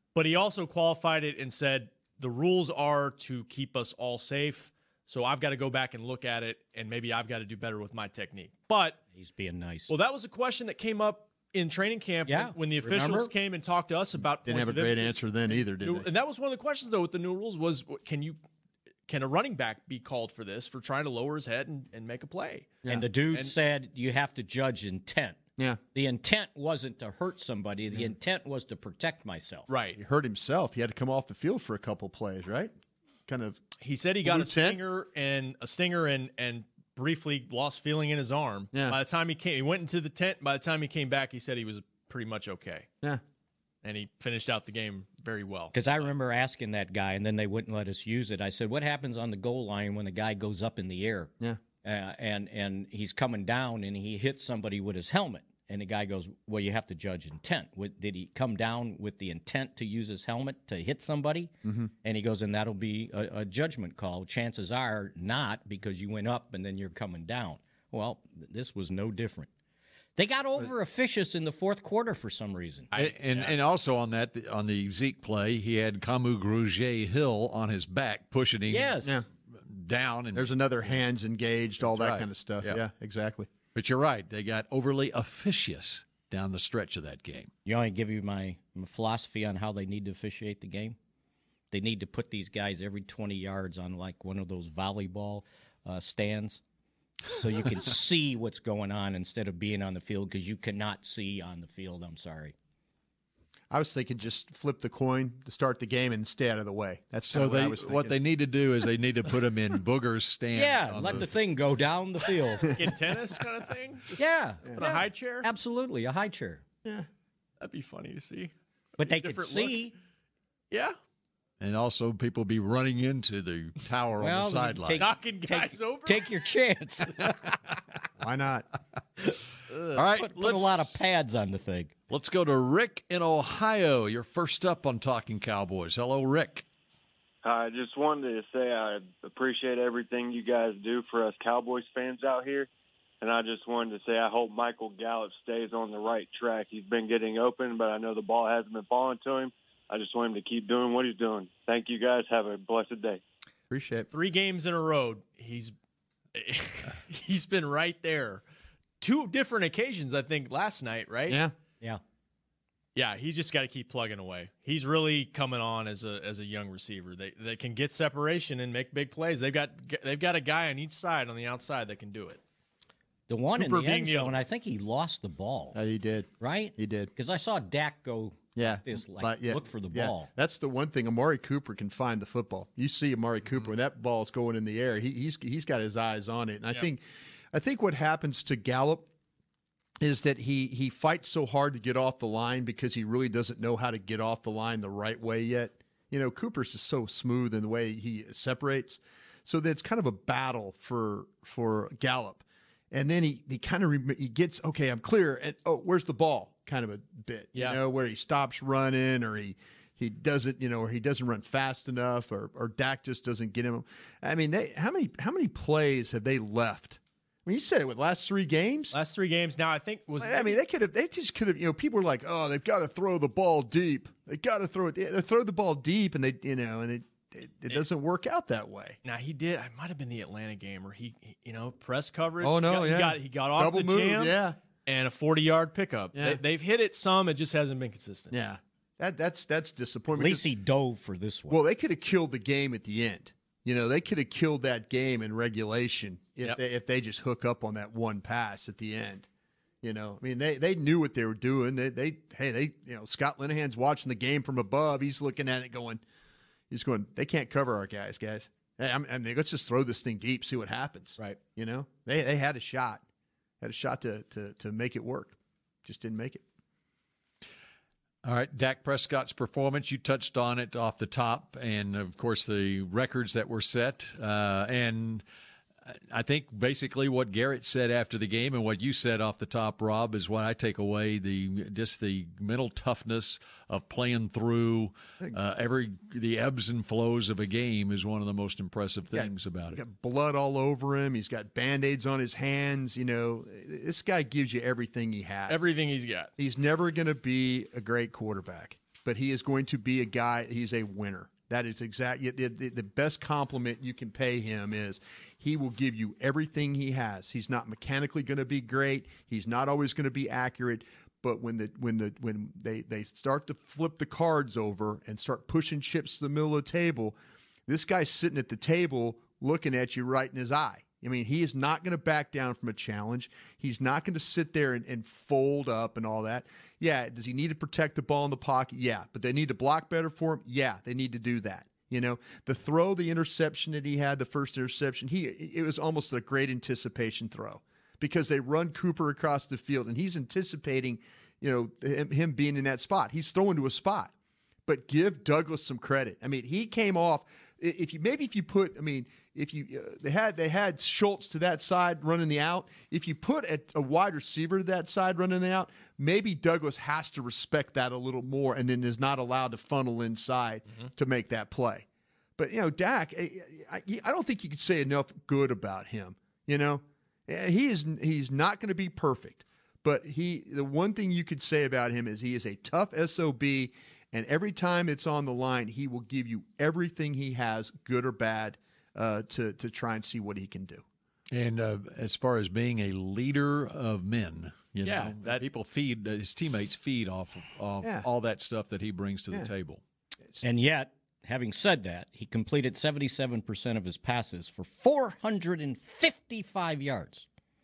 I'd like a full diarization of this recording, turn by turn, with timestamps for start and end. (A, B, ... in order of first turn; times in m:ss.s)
0:00.1-0:09.0 A
0:09.1-0:09.9 B
0:09.9-0:18.4 A
0:12.3-0:13.3 B
0:14.4-0:16.1 C
0:19.1-0:22.8 A
0:22.9-0:25.4 B
0:25.9-0:29.7 B
0:29.7-0:30.0 A
0:29.9-0:32.7 C
0:33.3-0:33.6 C
0:33.8-0:42.9 A
0:34.2-0:34.8 C
0:38.7-0:39.0 C
0:43.8-0:46.1 A
0:45.7-1:01.5 B
1:01.6-1:01.9 C
1:02.0-1:09.5 B
1:10.2-1:12.9 B
1:12.9-1:13.6 A
1:13.0-1:21.0 D
1:18.7-1:19.1 B
1:20.3-1:23.5 C
1:21.8-1:22.8 D
1:23.7-1:27.5 D
1:27.6-1:31.0 B
1:31.7-1:36.6 B
1:37.3-1:42.5 B
1:43.7-1:48.2 C
1:47.3-1:51.3 D
1:50.5-1:52.8 B
1:52.7-1:55.5 A
1:54.2-1:56.6 B
1:57.6-1:59.8 A
1:59.0-1:59.9 B
2:00.7-2:01.0 A
2:01.6-2:05.0 D
2:04.2-2:07.3 B
2:05.0-2:06.3 A
2:08.2-2:08.6 C
2:09.7-2:10.0 A
2:09.9-2:10.9 D
2:10.2-2:11.9 B
2:12.1-2:16.6 D
2:17.4-2:22.7 E
2:23.2-2:33.2 E
2:33.7-2:34.1 C
2:34.1-2:35.7 A
2:36.3-2:38.4 A
2:39.0-2:41.4 A
2:41.3-2:41.5 C
2:42.9-2:52.4 A
2:53.3-2:55.8 B
2:53.6-2:54.4 A
2:55.7-2:57.1 C
2:56.4-3:00.3 B
2:58.6-3:07.0 C
3:07.5-3:09.1 C
3:10.0-3:39.0 C
3:38.9-3:40.6 A
3:40.2-3:49.0 C
3:49.0-3:58.3 A
3:52.4-3:54.6 C
3:56.1-3:56.4 C
3:58.3-4:00.4 C
4:00.1-4:01.6 B
4:01.5-4:09.3 C
4:09.8-4:16.0 C
4:16.7-4:23.0 C
4:23.6-4:26.4 C
4:28.2-4:35.2 D
4:35.9-4:49.8 D
4:49.1-4:55.6 C
4:55.5-4:56.3 A
4:56.4-5:44.1 C
5:44.7-6:01.8 C
6:02.4-6:20.8 C
6:21.3-6:29.8 D
6:24.8-6:25.4 A
6:27.8-6:28.1 C
6:30.4-6:37.3 B